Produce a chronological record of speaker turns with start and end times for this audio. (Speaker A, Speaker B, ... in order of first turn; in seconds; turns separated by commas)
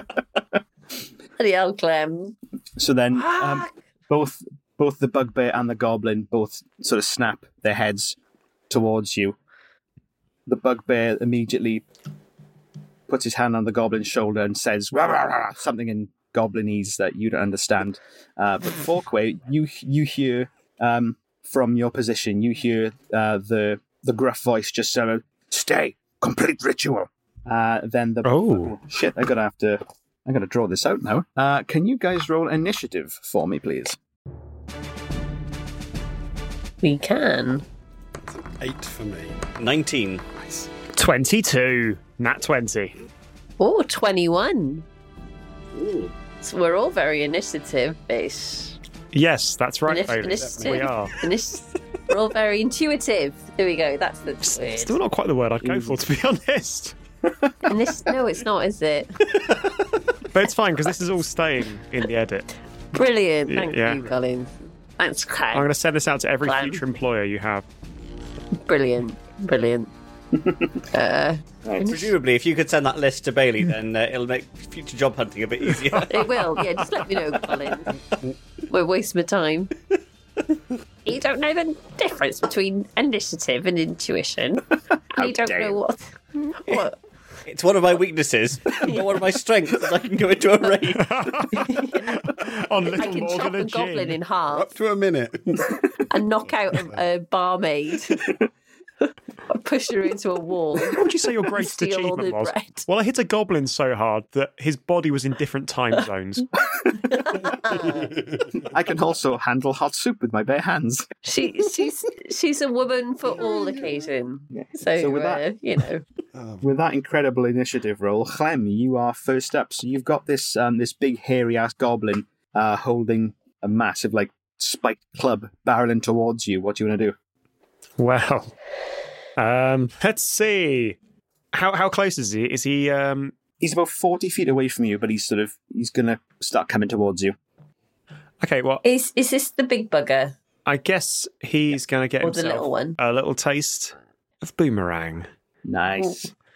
Speaker A: 1.4-2.4, Speaker B: 2.8-8.2, Speaker A: 3.3-3.7, Speaker B: 8.7-9.3, Speaker B: 10.4-11.8, Speaker B: 13.1-34.0, Speaker C: 28.2-28.7, Speaker A: 36.8-37.6, Speaker D: 38.2-39.4, Speaker E: 39.6-40.2, Speaker D: 40.3-40.7, Speaker C: 40.9-43.0, Speaker A: 43.6-44.8, Speaker E: 45.8-46.1, Speaker A: 46.4-48.8, Speaker C: 49.1-51.1, Speaker A: 49.9-55.0, Speaker D: 50.3-50.9, Speaker C: 54.4-56.9, Speaker A: 57.6-59.4, Speaker C: 60.3-62.5, Speaker A: 62.9-65.6, Speaker C: 63.5-64.1, Speaker C: 65.5-67.6, Speaker A: 66.4-66.8, Speaker A: 68.7-69.9, Speaker B: 70.3-70.8, Speaker A: 70.9-72.0, Speaker B: 71.6-72.0, Speaker E: 71.8-76.4, Speaker C: 75.9-76.8, Speaker A: 76.1-78.1, Speaker A: 78.7-79.7, Speaker A: 81.0-87.0, Speaker B: 85.1-85.8, Speaker E: 87.5-91.4, Speaker C: 90.9-94.2, Speaker A: 91.5-92.2, Speaker A: 93.0-94.7, Speaker D: 94.5-97.0, Speaker A: 96.1-98.3, Speaker A: 99.5-102.8, Speaker C: 100.9-106.5, Speaker A: 107.0-108.1, Speaker D: 107.7-108.7, Speaker B: 108.6-111.0, Speaker A: 111.2-116.0, Speaker D: 113.5-113.8, Speaker B: 114.5-115.4, Speaker D: 116.3-116.6, Speaker B: 116.6-127.1, Speaker C: 128.0-128.5, Speaker C: 129.4-131.0, Speaker C: 131.5-133.3, Speaker B: 133.6-137.3, Speaker C: 138.4-138.8, Speaker A: 138.8-140.3, Speaker C: 140.7-145.3, Speaker A: 142.2-143.0, Speaker B: 145.6-146.3